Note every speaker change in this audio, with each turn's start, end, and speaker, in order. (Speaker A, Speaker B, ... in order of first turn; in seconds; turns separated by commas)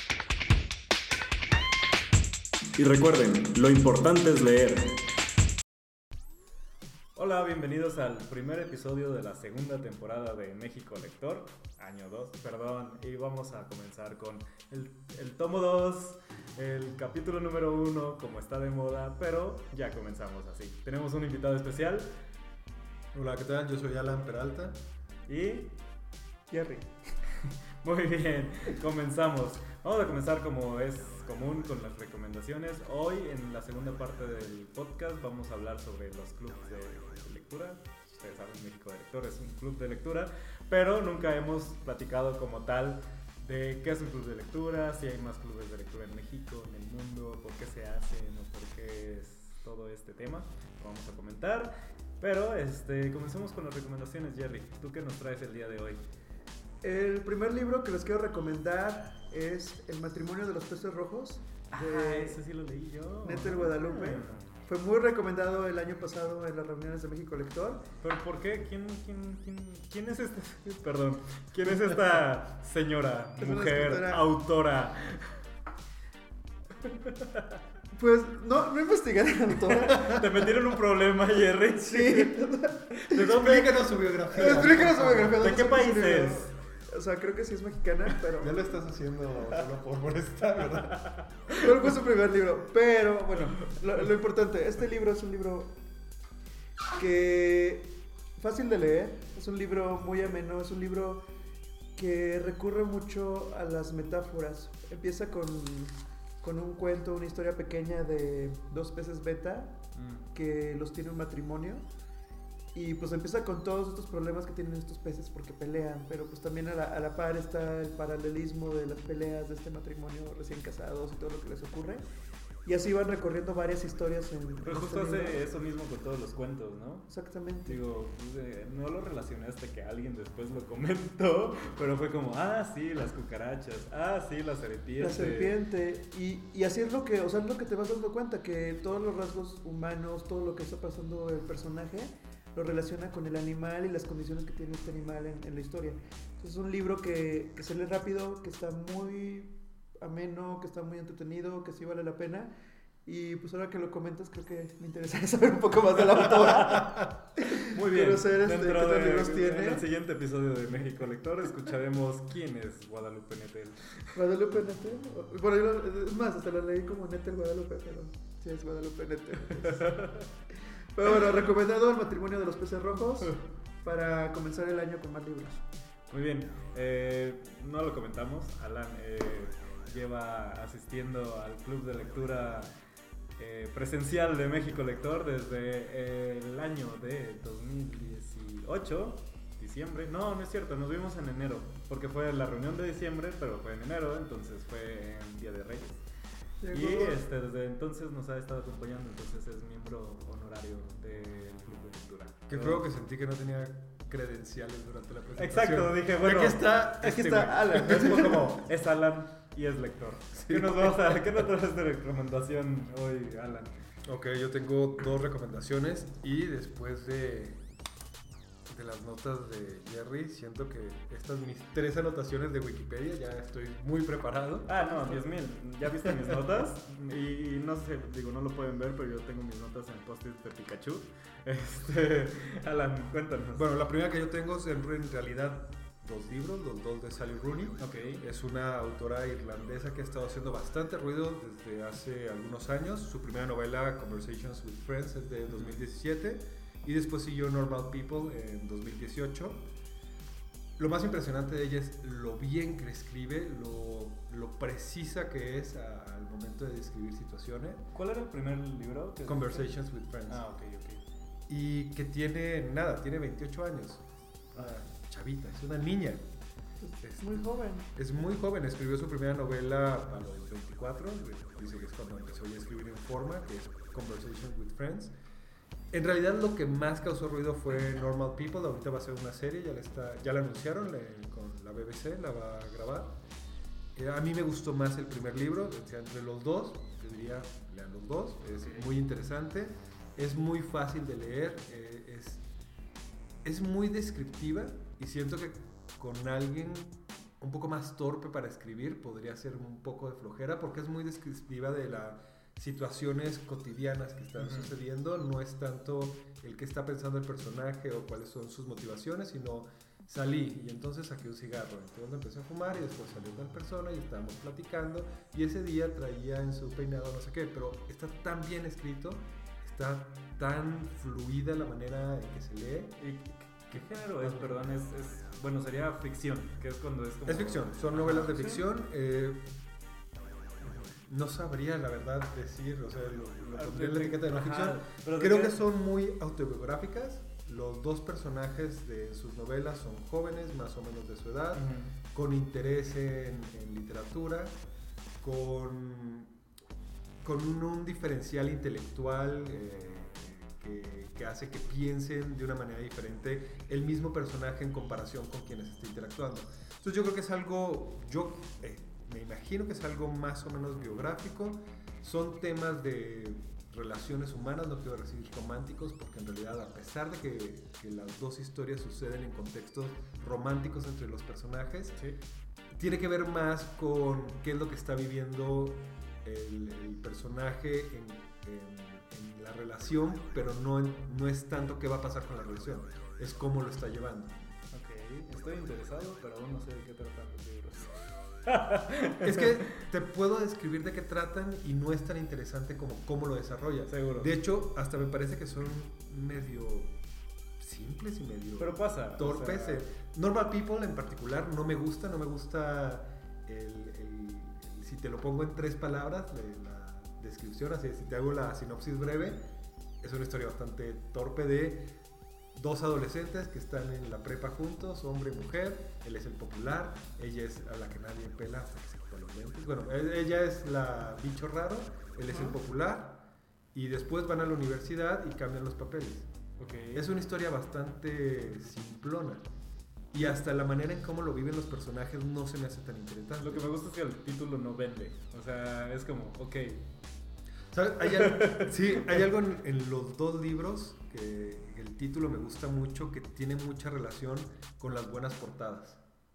Speaker A: 2.8-5.0, Speaker A: 7.2-22.1, Speaker B: 23.1-24.8, Speaker A: 25.3-25.7, Speaker C: 26.5-26.9, Speaker A: 27.4-56.0, Speaker C: 56.8-62.4, Speaker A: 61.7-64.5, Speaker C: 63.2-67.8, Speaker A: 68.0-75.4, Speaker C: 73.4-74.3, Speaker A: 76.9-77.5, Speaker C: 78.0-80.3, Speaker A: 79.7-82.4, Speaker C: 81.9-83.4, Speaker A: 83.0-83.9, Speaker B: 83.1-85.3, Speaker C: 84.3-88.6, Speaker A: 84.5-86.5, Speaker B: 88.4-91.0, Speaker A: 91.0-91.7, Speaker C: 91.5-95.8, Speaker C: 97.0-101.2, Speaker C: 102.0-109.8, Speaker A: 110.0-110.2, Speaker C: 110.3-111.9, Speaker C: 112.8-122.0, Speaker C: 122.7-125.4, Speaker A: 124.7-127.1, Speaker C: 127.1-127.8, Speaker A: 127.7-135.6, Speaker C: 135.0-152.5, Speaker C: 153.1-159.8, Speaker A: 156.4-156.9, Speaker A: 157.6-164.2, Speaker C: 164.2-170.1, Speaker A: 169.6-170.3, Speaker C: 170.9-175.7, Speaker A: 176.1-182.7, Speaker A: 183.4-196.0, Speaker C: 196.6-197.2, Speaker A: 196.7-202.8, Speaker B: 202.5-208.7, Speaker A: 205.4-213.7, Speaker C: 207.0-208.5, Speaker B: 210.4-211.2, Speaker B: 214.1-217.6, Speaker B: 218.7-224.9, Speaker A: 224.7-233.6, Speaker B: 233.5-249.6, Speaker A: 237.8-238.2, Speaker A: 245.5-245.8, Speaker B: 250.8-257.8, Speaker A: 257.9-259.7, Speaker B: 259.2-260.4, Speaker A: 260.3-261.0, Speaker B: 261.5-266.2, Speaker C: 266.8-267.9, Speaker B: 267.0-275.1, Speaker B: 275.9-283.1, Speaker B: 284.0-292.4, Speaker A: 288.5-288.9, Speaker B: 293.4-323.0, Speaker A: 304.4-304.7, Speaker A: 323.0-328.6, Speaker B: 323.7-324.6, Speaker B: 327.3-329.5, Speaker A: 330.6-330.9, Speaker B: 330.9-344.6, Speaker A: 333.5-335.6, Speaker A: 341.6-341.9, Speaker B: 345.2-346.3, Speaker B: 347.2-372.0, Speaker B: 372.7-384.4, Speaker A: 384.7-389.7, Speaker B: 389.2-396.9, Speaker A: 393.9-394.4, Speaker B: 397.6-409.4, Speaker A: 398.6-399.8, Speaker B: 410.0-411.9, Speaker B: 412.5-423.2, Speaker B: 423.7-426.3, Speaker A: 426.6-427.1, Speaker B: 426.9-429.4, Speaker B: 430.1-433.7, Speaker A: 433.4-436.9, Speaker B: 437.7-446.0, Speaker A: 438.1-439.1